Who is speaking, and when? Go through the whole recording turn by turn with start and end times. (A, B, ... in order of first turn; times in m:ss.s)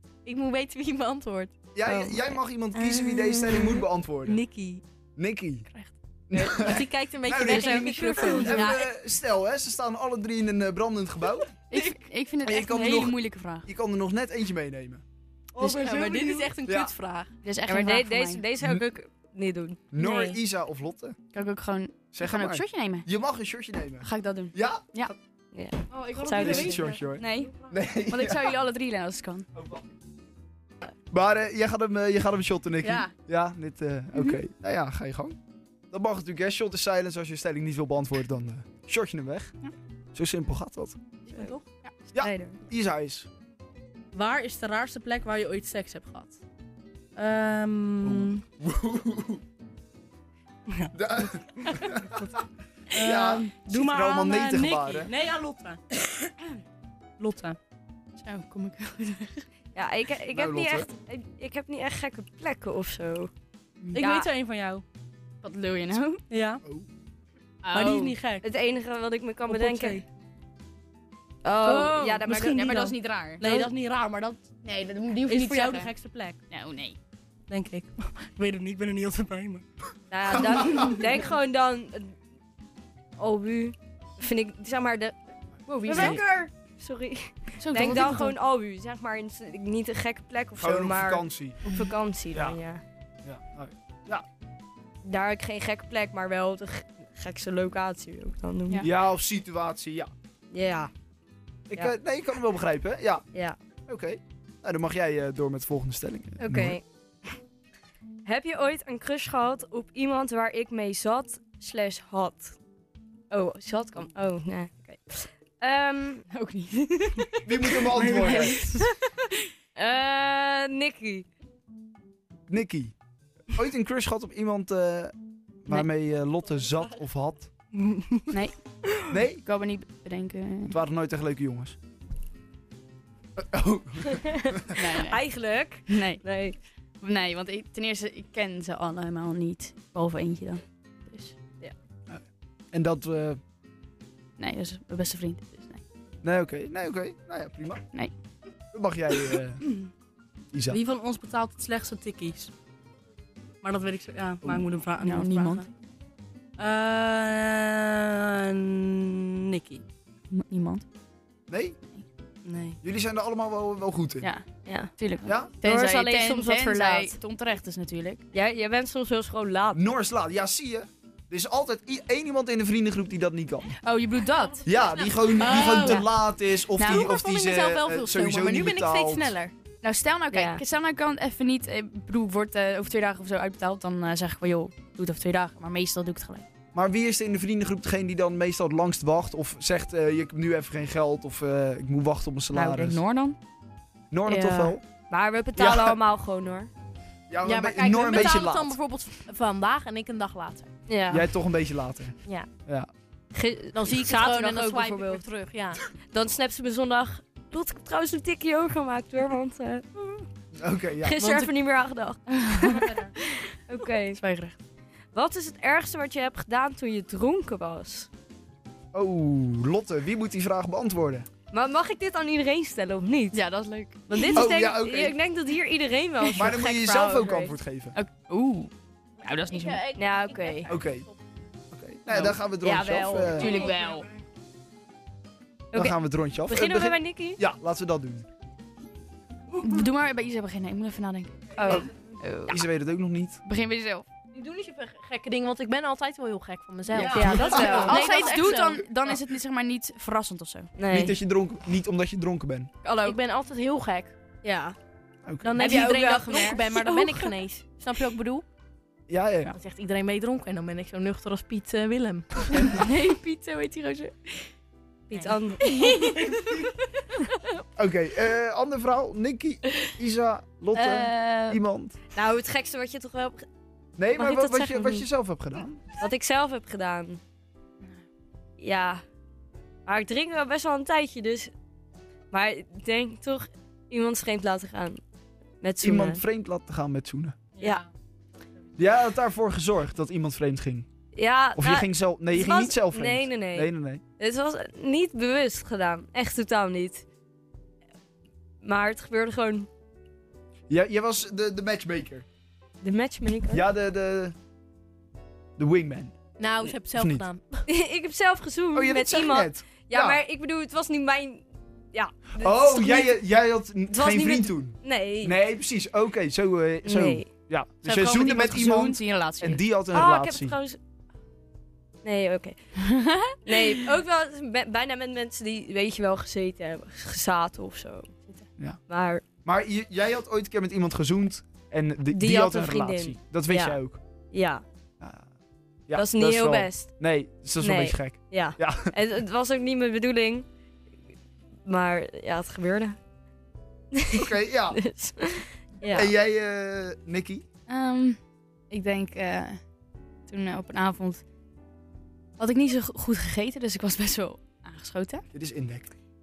0:00.3-0:01.5 A
0:01.8-0:04.4 B
0:01.8-0:02.4 C
0:02.7-0:04.8 A
0:05.2-0:05.7 B
0:05.7-0:05.9 D
0:06.3-0:11.5 B
0:06.3-0:08.9 A
0:07.5-0:07.8 D
0:07.7-0:08.3 C
0:08.3-0:08.7 D
0:11.7-0:13.7 D
0:12.4-0:15.0 B
0:15.6-0:17.3 A
0:15.6-0:16.0 B
0:15.7-0:16.5 E
0:16.6-0:16.9 B
0:17.4-0:18.4 D
0:17.7-0:19.8 C
0:19.9-0:21.2 B
0:20.0-0:20.4 A
0:21.3-0:23.1 D
0:22.1-0:25.2 B
0:24.0-0:25.1 D
0:25.5-0:26.8 C
0:25.9-0:27.7 A
0:26.1-0:26.6 E
0:26.4-0:28.5 B
0:27.2-0:27.5 D
0:28.0-0:29.5 D
0:29.6-0:29.8 B
0:31.1-0:35.4 B
0:32.8-0:33.1 A
0:35.9-0:39.5 B
0:40.1-0:41.0 B
0:41.3-0:41.6 E
0:42.1-0:43.3 B
0:42.2-0:42.6 C
0:44.1-0:46.4 E
0:47.2-0:48.4 E
0:48.0-0:49.4 B
0:50.9-0:52.4 B
0:51.7-0:52.2 E
0:52.9-0:55.8 E
0:52.9-0:55.1 B
0:57.2-0:57.6 E
0:58.2-0:59.5 D
0:59.8-1:03.3 C
1:00.3-1:00.9 B
1:03.9-1:04.8 E
1:03.9-1:04.3 C
1:05.4-1:06.2 D
1:06.3-1:06.6 E
1:07.6-1:08.2 D
1:07.7-1:08.5 E
1:08.4-1:10.0 C
1:09.5-1:10.0 E
1:11.4-1:12.6 C
1:11.6-1:13.7 D
1:12.2-1:14.5 E
1:14.6-1:15.9 D
1:15.3-1:16.4 E
1:16.5-1:17.0 D
1:17.5-1:19.6 E
1:20.1-1:22.2 C
1:20.4-1:20.9 B
1:23.2-1:25.2 C
1:25.7-1:26.2 D
1:25.8-1:32.8 C
1:27.6-1:28.4 D
1:30.6-1:31.6 B
1:32.3-1:32.6 B
1:33.2-1:34.2 B
1:35.0-1:38.9 C
1:38.8-1:40.1 B
1:40.5-1:40.9 C
1:41.7-1:43.3 B
1:43.9-1:46.8 B
1:46.4-1:46.8 C
1:48.2-1:52.6 C
1:53.3-1:56.3 C
1:56.3-1:58.7 D
1:57.4-1:58.7 B
1:58.0-1:58.8 E
1:59.8-2:01.3 C
2:02.5-2:02.9 B
2:03.5-2:07.5 B
2:07.8-2:08.3 E
2:08.3-2:08.6 D
2:09.1-2:09.4 B
2:09.1-2:10.8 D
2:10.7-2:11.8 B
2:13.4-2:14.7 B
2:14.8-2:15.3 D
2:14.8-2:16.6 C
2:15.9-2:16.2 D
2:17.0-2:21.4 D
2:22.1-2:23.4 B
2:24.4-2:25.8 D
2:26.2-2:27.8 B
2:28.7-2:29.6 B
2:30.5-2:30.8 B
2:30.7-2:32.5 E
2:33.6-2:35.7 E
2:35.0-2:35.7 D
2:36.6-2:39.8 E
2:40.3-2:40.8 D
2:41.5-2:41.8 B
2:42.4-2:42.8 E
2:42.8-2:44.3 B
2:44.2-2:48.2 D
2:44.7-2:44.9 C
2:45.2-2:45.5 B
2:45.6-2:47.2 C
2:48.3-2:49.9 C
2:49.7-2:53.8 B
2:53.8-2:54.7 D
2:54.6-2:59.4 B
2:54.8-2:56.1 A
2:56.8-2:57.1 D
2:56.8-2:59.5 A
2:59.8-3:06.4 D
3:00.3-3:00.6 C
3:06.7-3:13.0 B
3:12.5-3:13.4 D
3:14.1-3:14.8 B
3:14.3-3:16.7 C
3:15.6-3:16.0 B
3:17.3-3:18.8 B
3:17.4-3:20.7 A
3:20.9-3:21.3 C
3:21.1-3:22.9 B
3:23.3-3:25.3 C
3:23.7-3:25.8 A
3:26.1-3:30.3 C
3:30.6-3:31.2 B
3:31.0-3:34.2 C
3:31.2-3:31.5 A
3:32.4-3:32.8 D
3:32.8-3:33.1 A
3:34.1-3:34.6 D
3:35.1-3:38.1 C
3:38.9-3:41.3 B
3:41.5-3:43.4 C
3:43.3-3:44.6 D
3:44.1-3:47.6 C
3:44.4-3:45.2 B
3:46.3-3:48.0 B
3:47.9-3:49.8 D
3:49.5-3:51.2 A
3:50.0-3:50.7 C
3:50.7-3:51.1 B
3:51.7-3:53.6 B
3:52.1-3:52.4 D
3:52.6-3:53.7 C
3:53.3-3:54.1 D
3:53.6-3:53.9 E
3:55.7-3:57.4 C
3:55.7-3:58.3 B
3:59.6-4:02.6 D
4:01.6-4:01.9 C
4:02.5-4:03.4 B
4:03.4-4:04.1 D
4:04.3-4:08.8 A
4:06.9-4:08.6 B
4:06.9-4:10.7 D
4:07.0-4:07.8 E
4:10.8-4:11.2 C
4:10.9-4:12.7 B
4:12.8-4:13.2 D
4:13.0-4:14.1 A
4:14.4-4:14.8 C
4:15.2-4:15.6 B
4:15.4-4:18.5 A
4:15.6-4:17.3 C
4:15.6-4:16.6 D
4:19.1-4:19.6 B
4:19.5-4:22.8 A
4:22.5-4:24.5 D
4:25.1-4:26.2 C
4:25.6-4:26.7 E
4:25.7-4:26.6 D
4:27.8-4:32.0 B
4:30.7-4:31.6 D
4:32.1-4:33.5 C
4:34.0-4:35.8 B
4:34.1-4:35.1 C
4:36.0-4:37.2 C
4:38.6-4:39.0 C
4:39.9-4:41.5 C
4:42.3-4:45.0 C
4:45.6-4:46.2 C
4:45.8-4:47.4 B
4:47.6-4:47.9 E
4:48.8-4:50.9 B
4:51.2-4:57.0 C
4:51.6-4:54.0 B
4:58.6-4:59.7 C
5:00.7-5:02.2 B
5:02.8-5:03.6 C
5:03.5-5:04.4 B
5:05.6-5:06.1 B
5:06.4-5:07.6 A
5:06.9-5:07.3 B
5:07.7-5:13.2 C
5:08.7-5:10.2 B
5:12.4-5:20.6 B
5:13.9-5:15.4 C
5:16.8-5:17.3 C
5:18.0-5:19.6 D
5:19.9-5:20.8 C
5:22.0-5:22.6 C
5:22.9-5:23.4 D
5:23.2-5:28.1 C
5:28.9-5:29.2 C
5:29.4-5:34.0 B
5:32.1-5:33.8 C
5:34.3-5:34.6 C
5:35.0-5:35.3 B
5:35.9-5:38.9 B
5:35.9-5:37.0 C
5:37.6-5:40.5 C
5:41.7-5:43.0 C
5:44.0-5:46.1 C
5:44.1-5:44.8 B
5:45.9-5:47.4 B
5:47.7-5:48.2 D
5:48.7-5:49.6 D
5:50.3-5:51.2 D
5:52.4-5:55.2 D
5:55.3-5:55.9 B